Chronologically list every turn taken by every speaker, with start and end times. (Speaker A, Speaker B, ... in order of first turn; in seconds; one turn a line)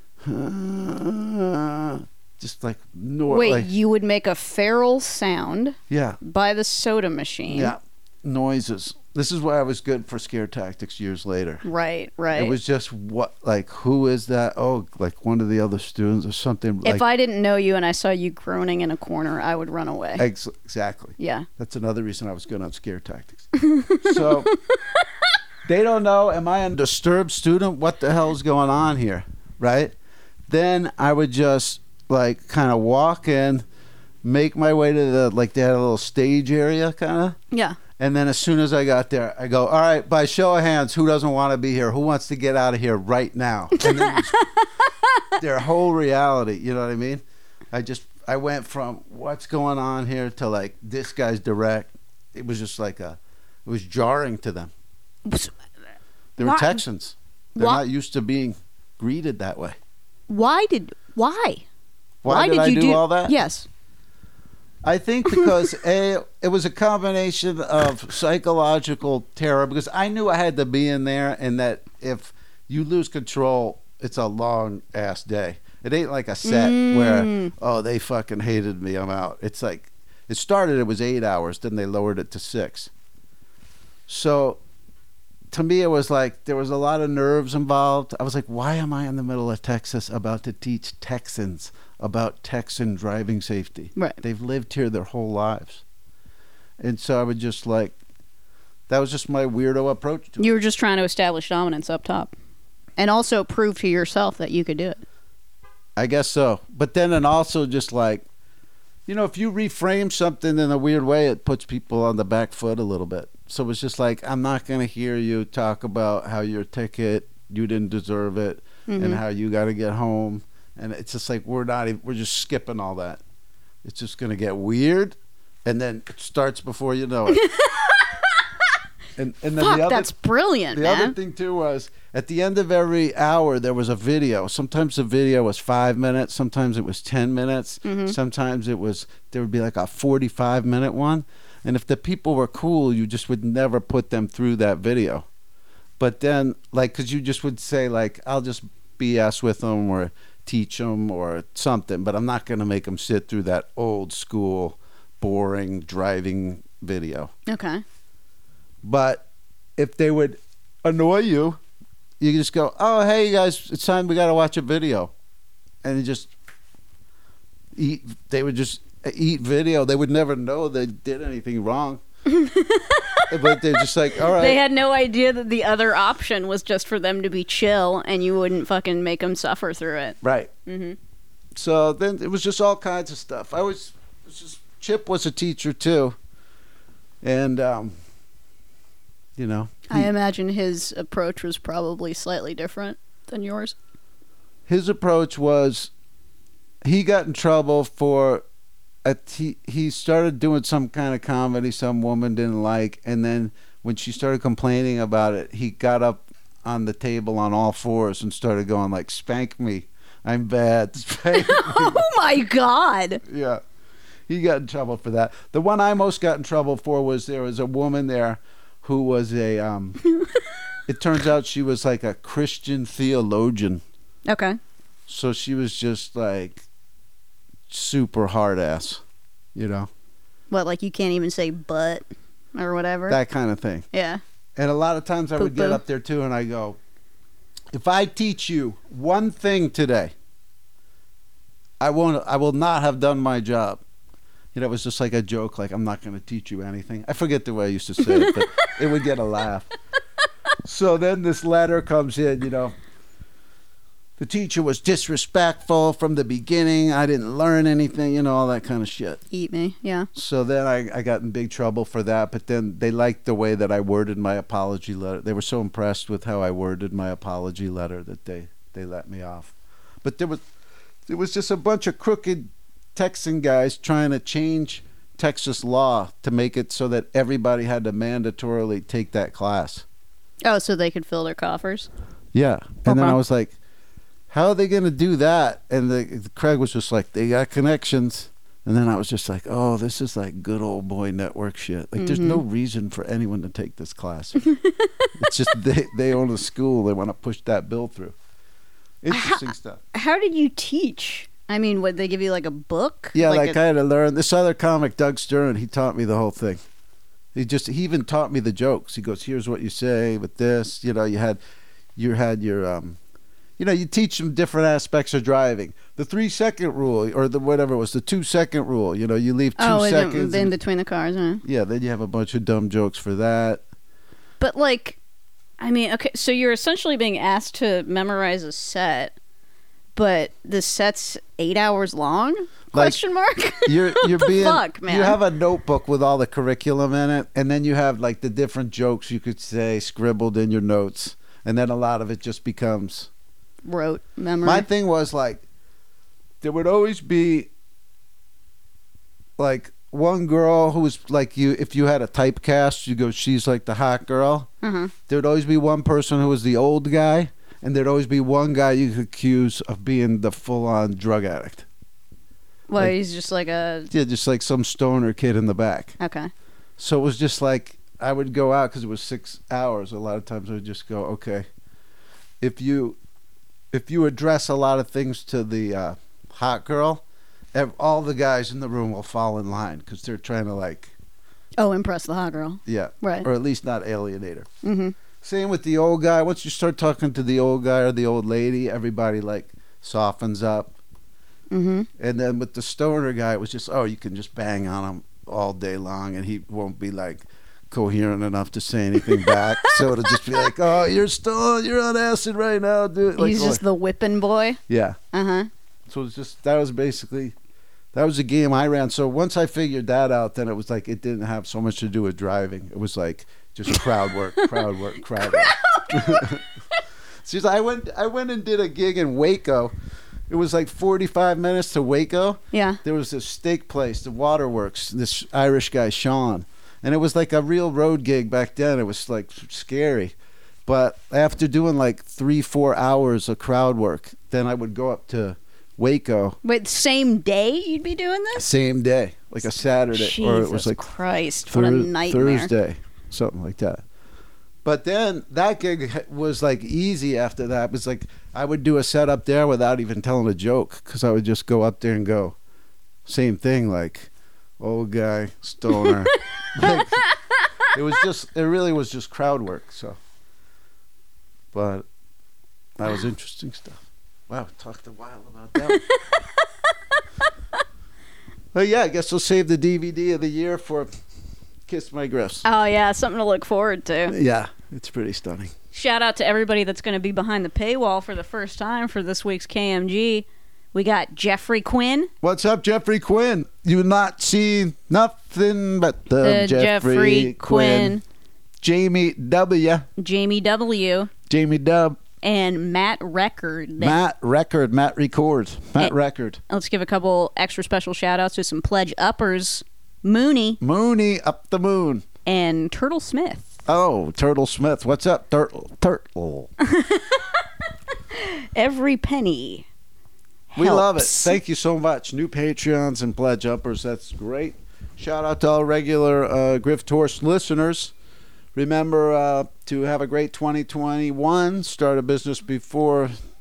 Speaker A: 0.2-3.7
Speaker B: 3.3-7.7
Speaker A: 5.9-6.2
Speaker A: 7.5-11.6
Speaker B: 11.6-12.6
Speaker A: 12.3-17.0
Speaker B: 16.8-20.2
Speaker A: 20.2-24.5
Speaker B: 21.2-21.5
Speaker B: 23.6-25.0
Speaker A: 25.6-29.9
Speaker A: 30.5-33.6
Speaker A: 34.2-37.4
Speaker B: 37.5-37.8
Speaker A: 38.0-44.4
Speaker B: 43.8-45.2
Speaker A: 45.4-54.7
Speaker B: 55.2-55.5
Speaker A: 56.4-59.8
Speaker B: 56.4-56.8
Speaker B: 57.6-57.8
Speaker B: 60.3-61.6
Speaker A: 62.2-63.4
Speaker B: 62.2-63.7
Speaker A: 64.8-82.9
Speaker B: 76.4-77.5
Speaker A: 84.1-84.6
Speaker A: 85.5-95.8
Speaker A: 96.8-98.0
Speaker A: 98.9-100.5
Speaker B: 100.4-102.3
Speaker B: 103.0-105.0
Speaker A: 106.0-108.2
Speaker A: 109.1-123.2
Speaker B: 118.9-119.2
Speaker A: 123.8-127.4
Speaker B: 127.3-128.5
Speaker A: 129.2-130.1
Speaker B: 129.6-131.2
Speaker A: 130.7-145.2
Speaker B: 137.8-138.2
Speaker A: 146.0-157.3
Speaker B: 157.5-157.8
Speaker A: 158.8-159.2
Speaker A: 159.8-161.6
Speaker A: 162.2-165.1
Speaker A: 165.8-166.3
Speaker A: 167.8-172.0
Speaker B: 172.2-181.0
Speaker A: 173.3-174.6
Speaker A: 180.2-180.5
Speaker A: 181.6-186.2
Speaker A: 187.2-187.9
Speaker A: 189.4-190.1
Speaker B: 189.9-193.8
Speaker A: 194.7-195.9
Speaker A: 196.8-198.4
Speaker A: 199.0-212.1
Speaker B: 211.3-213.2
Speaker A: 213.2-213.6
Speaker A: 214.3-220.0
Speaker B: 220.2-220.4
Speaker A: 220.9-223.8
Speaker B: 224.3-224.6
Speaker A: 225.1-226.6
Speaker A: 227.7-229.0
Speaker A: 229.5-229.9
Speaker B: 230.5-233.2
Speaker A: 233.1-233.8
Speaker B: 233.9-234.2
Speaker A: 234.6-236.8
Speaker B: 235.4-235.8
Speaker A: 237.7-240.1
Speaker A: 241.8-243.8
Speaker A: 244.5-249.7
Speaker B: 248.0-248.4
Speaker A: 250.6-252.8
Speaker A: 254.2-259.2
Speaker B: 259.3-260.1
Speaker A: 260.1-270.4
Speaker A: 271.1-279.8
Speaker B: 280.4-281.9
Speaker A: 282.3-283.6
Speaker B: 282.9-283.2
Speaker A: 284.3-294.5
Speaker B: 292.0-292.4
Speaker B: 294.5-295.3
Speaker A: 295.1-298.1
Speaker A: 299.0-299.8
Speaker B: 299.1-303.6
Speaker A: 303.1-306.6
Speaker A: 307.3-311.4
Speaker A: 311.9-313.0
Speaker A: 313.6-320.5
Speaker B: 319.6-321.4
Speaker A: 321.4-323.6
Speaker B: 324.4-325.0
Speaker B: 325.6-329.1
Speaker B: 329.9-335.2
Speaker A: 332.7-333.0
Speaker A: 333.6-343.1
Speaker B: 343.6-344.6
Speaker A: 344.4-345.4
Speaker A: 346.4-347.5
Speaker A: 349.4-354.5
Speaker B: 354.6-354.9
Speaker A: 355.1-361.7
Speaker B: 362.7-363.9
Speaker A: 363.9-365.9
Speaker B: 366.0-366.3
Speaker A: 366.8-371.4
Speaker A: 372.4-373.0
Speaker A: 373.7-377.0
Speaker A: 377.5-380.9
Speaker B: 381.6-383.3
Speaker A: 382.6-384.5
Speaker B: 384.6-384.9
Speaker A: 385.2-390.8
Speaker B: 391.5-391.9
Speaker A: 392.0-403.6
Speaker B: 399.0-400.5
Speaker B: 403.2-404.6
Speaker A: 404.7-405.0
Speaker B: 405.1-405.5
Speaker A: 405.9-407.3
Speaker A: 407.9-416.4
Speaker B: 414.4-416.4
Speaker A: 417.2-419.7
Speaker A: 420.3-430.1
Speaker B: 422.5-422.8
Speaker A: 430.6-436.4
Speaker B: 436.4-438.4
Speaker A: 438.3-440.8
Speaker B: 439.9-442.5
Speaker A: 441.5-443.8
Speaker A: 444.6-452.4
Speaker A: 453.1-457.1
Speaker B: 455.7-457.7
Speaker A: 457.7-460.0
Speaker A: 461.5-461.9
Speaker A: 462.8-465.8
Speaker B: 465.6-467.3
Speaker A: 468.5-470.9
Speaker A: 471.7-472.4
Speaker B: 472.4-474.1
Speaker A: 474.1-475.5
Speaker B: 475.7-482.1
Speaker A: 482.2-488.0
Speaker B: 486.2-488.0
Speaker A: 488.6-489.9
Speaker B: 490.0-491.1
Speaker A: 491.3-492.0
Speaker B: 492.2-493.9
Speaker A: 493.8-496.4
Speaker B: 496.5-500.6
Speaker A: 500.6-502.0
Speaker B: 502.2-503.5
Speaker A: 503.7-506.5
Speaker B: 506.6-507.4
Speaker B: 508.1-509.6
Speaker B: 510.5-511.4
Speaker A: 510.6-517.9
Speaker A: 518.5-523.1